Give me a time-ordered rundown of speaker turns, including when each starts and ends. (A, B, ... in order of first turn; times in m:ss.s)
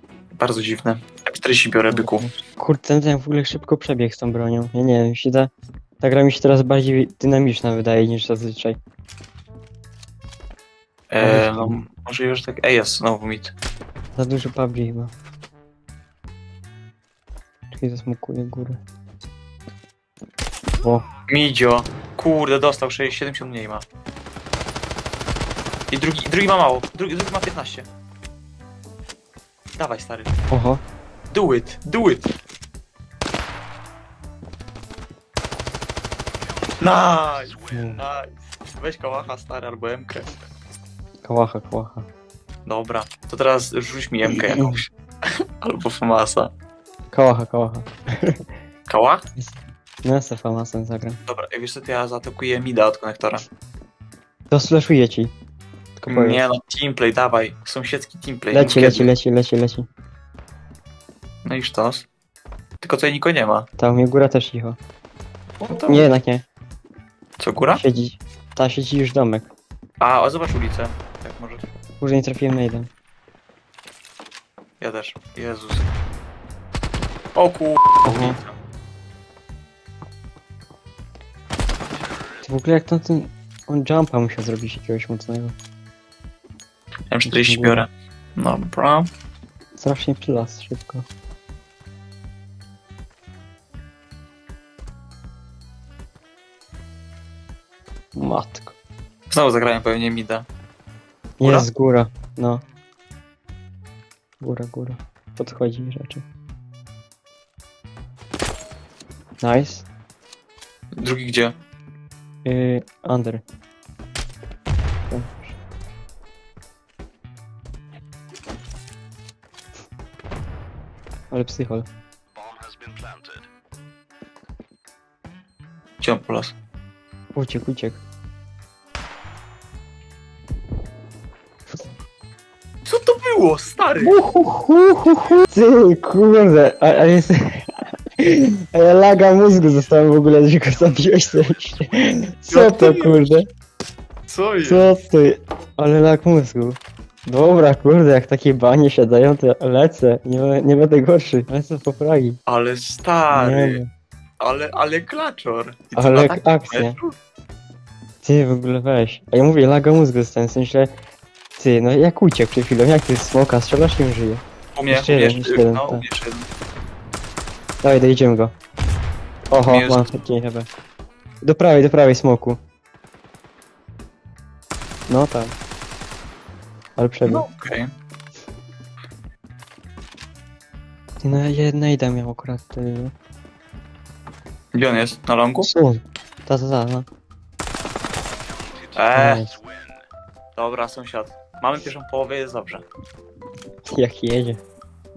0:00.4-0:02.3 A
0:01.9-0:08.8 B
0:11.1-0:13.5 A
0:11.2-0:11.8 B
0:14.2-0:15.1 B
0:17.7-0:18.8 B
0:21.3-0:23.8 A
0:25.9-0:27.9 A
0:29.8-0:30.3 A
0:30.5-0:30.8 B
0:31.3-0:32.3 A
0:36.8-0:40.3 A
0:37.7-0:38.0 B
0:41.2-0:42.1 B
0:42.6-0:46.5 A
0:44.2-0:44.8 B
0:47.1-0:48.4 B
0:48.9-0:49.2 A
0:49.4-0:51.2 B
0:51.2-0:53.4 A
0:54.5-0:55.3 B
0:56.0-0:56.4 B
0:56.1-0:59.1 A
0:58.5-0:59.8 B
1:01.4-1:02.0 A
1:02.8-1:03.7 A
1:03.8-1:04.8 B
1:05.6-1:06.1 A
1:05.7-1:06.4 B
1:07.4-1:07.8 A
1:07.7-1:09.5 B
1:10.0-1:11.6 A
1:12.0-1:12.9 B
1:14.8-1:15.8 A
1:17.4-1:18.5 A
1:18.0-1:18.4 B
1:22.4-1:25.6 B
1:27.1-1:29.1 A
1:27.2-1:27.8 B
1:29.8-1:31.0 B
1:38.1-1:38.7 B
1:39.3-1:40.4 A
1:41.4-1:42.6 B
1:44.4-1:46.2 B
1:49.4-1:49.8 B
1:51.0-1:51.5 A
1:52.4-1:53.4 B
1:55.1-1:55.5 B
2:01.3-2:01.9 B
2:06.0-2:06.5 A
2:07.3-2:08.0 B
2:12.8-2:14.2 A
2:14.0-2:17.7 B
2:18.2-2:23.4 B
2:22.5-2:23.4 A
2:24.3-2:24.9 A
2:24.6-2:32.4 B
2:32.4-2:33.8 A
2:33.3-2:33.9 B
2:34.4-2:37.1 A
2:35.9-2:37.0 B
2:38.2-2:40.9 B
2:41.6-2:46.0 B
2:44.7-2:46.5 A
2:47.8-2:48.5 B
2:49.5-2:50.7 B
2:49.7-2:50.2 A
2:51.4-2:52.6 B
2:55.1-2:55.5 B
2:57.0-2:57.5 B
2:57.2-2:57.9 A
3:01.2-3:03.1 B
3:04.7-3:05.7 A
3:05.6-3:07.1 B
3:08.9-3:09.4 A
3:09.1-3:09.6 B
3:10.5-3:12.8 A
3:13.8-3:14.6 B